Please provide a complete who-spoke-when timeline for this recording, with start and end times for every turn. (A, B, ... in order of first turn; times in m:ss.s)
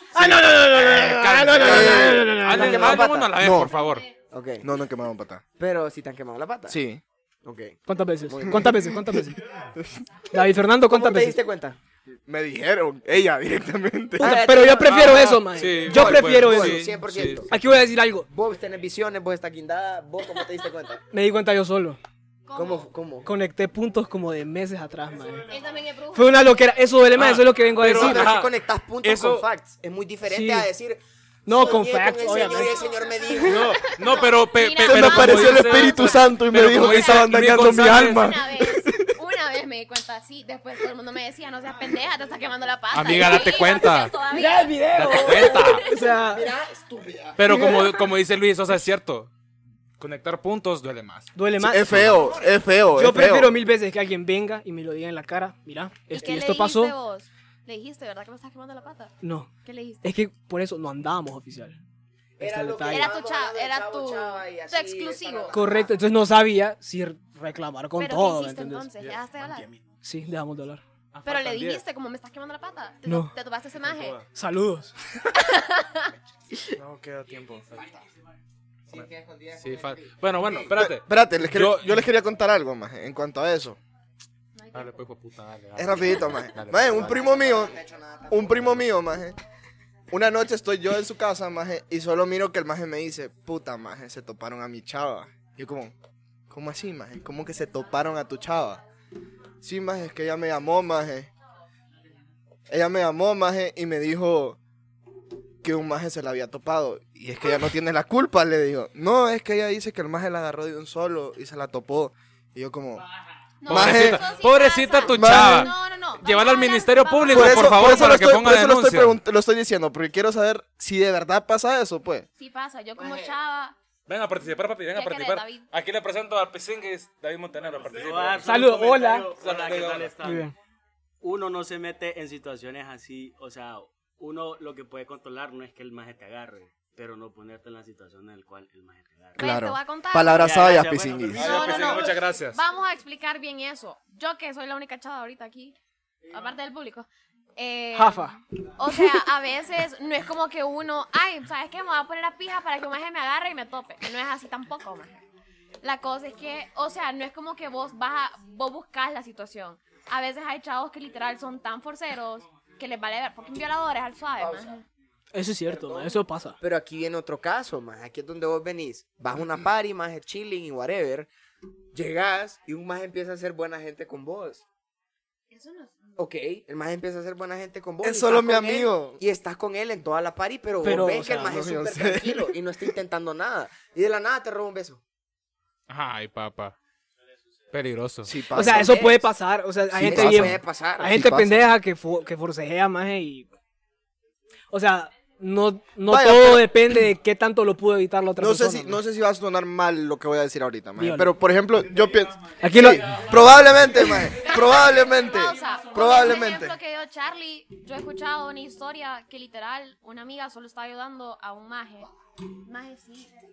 0:00.1-0:03.1 A
0:00.1-0:04.0 B
0:01.6-0:02.3 C
0:01.7-0:03.4 D
0:03.4-0:03.7 C
0:04.3-0:04.7 D
0:04.6-0:05.4 C
0:05.6-0:06.8 D
0:06.7-0:07.0 C
0:07.4-0:08.8 D
0:07.9-0:09.4 A
0:10.3-0:11.4 A
0:10.8-0:11.8 D
0:12.3-0:14.4 C
0:14.2-0:17.0 A
0:14.2-0:17.5 D
0:14.8-0:17.5 B
0:17.5-0:18.3 A
0:18.3-0:21.0 D
0:21.1-0:22.0 A
0:22.5-0:22.9 E
0:22.5-0:23.3 D
0:23.2-0:25.5 A
0:25.5-0:26.5 E
0:26.1-0:28.3 A
0:27.1-0:29.4 B
0:27.8-0:33.8 D
0:30.2-0:30.7 A
0:31.4-0:32.9 A
0:32.4-0:46.0 E
0:33.4-0:38.3 B
0:34.8-0:39.1 C
0:42.9-0:44.1 B
0:44.3-0:46.4 A
0:44.9-0:45.8 B
0:46.3-0:47.8 D
0:47.4-0:49.3 B
0:47.4-0:47.9 A
0:50.0-0:51.3 B
0:51.3-0:52.2 A
0:51.6-0:53.5 C
0:51.9-0:52.2 B
0:52.1-0:52.6 D
0:52.9-0:56.9 A
0:56.1-1:00.0 E
0:59.2-0:59.5 A
1:00.0-1:01.8 A
1:02.4-1:03.1 A
1:02.4-1:06.0 D
1:02.9-1:05.6 E
1:05.5-1:08.9 A
1:08.0-1:09.7 E
1:10.0-1:10.8 A
1:11.1-1:11.8 B
1:11.2-1:14.2 E
1:13.0-1:13.3 A
1:14.3-1:15.0 A
1:15.4-1:16.1 E
1:16.8-1:17.8 B
1:17.8-1:18.0 D
1:18.9-1:20.7 D
1:19.6-1:22.0 B
1:20.7-1:23.8 C
1:24.6-1:24.9 E
1:24.7-1:27.1 B
1:25.8-1:27.8 C
1:26.8-1:28.8 D
1:28.3-1:29.4 C
1:30.1-1:35.9 C
1:36.5-1:38.8 C
1:39.6-1:41.3 C
1:42.7-1:44.6 C
1:45.6-1:53.0 C
1:53.6-1:58.2 E
1:53.7-1:59.2 B
1:53.7-1:54.2 C
1:55.1-1:55.7 C
1:57.3-2:02.2 C
2:02.4-2:03.7 E
2:03.0-2:03.3 D
2:04.1-2:08.6 B
2:04.9-2:05.6 E
2:07.9-2:10.5 F
2:08.4-2:09.4 A
2:09.3-2:10.2 B
2:10.2-2:10.5 A
2:11.2-2:19.5 F
2:19.4-2:20.6 E
2:19.4-2:21.4 C
2:20.3-2:22.0 F
2:21.3-2:25.7 E
2:21.3-2:22.6 B
2:26.3-2:35.2 E
2:27.9-2:28.4 A
2:35.8-2:44.8 E
2:44.4-2:44.7 D
2:45.3-2:46.6 A
2:45.7-2:51.3 D
2:51.9-2:54.6 D
2:55.5-2:56.2 E
2:56.2-3:05.0 D
2:58.0-2:59.2 C
3:00.8-3:01.5 A
3:01.4-3:02.6 C
3:05.9-3:06.7 B
3:07.7-3:08.4 B
3:08.2-3:09.1 C
3:08.5-3:09.3 D
3:08.5-3:13.5 A
3:09.9-3:11.7 C
3:09.9-3:11.2 D
3:14.7-3:19.0 A
3:16.1-3:17.0 C
3:18.4-3:26.7 C
3:21.0-3:21.3 A
3:22.6-3:23.2 A
3:24.3-3:32.1 E
3:32.6-3:33.3 E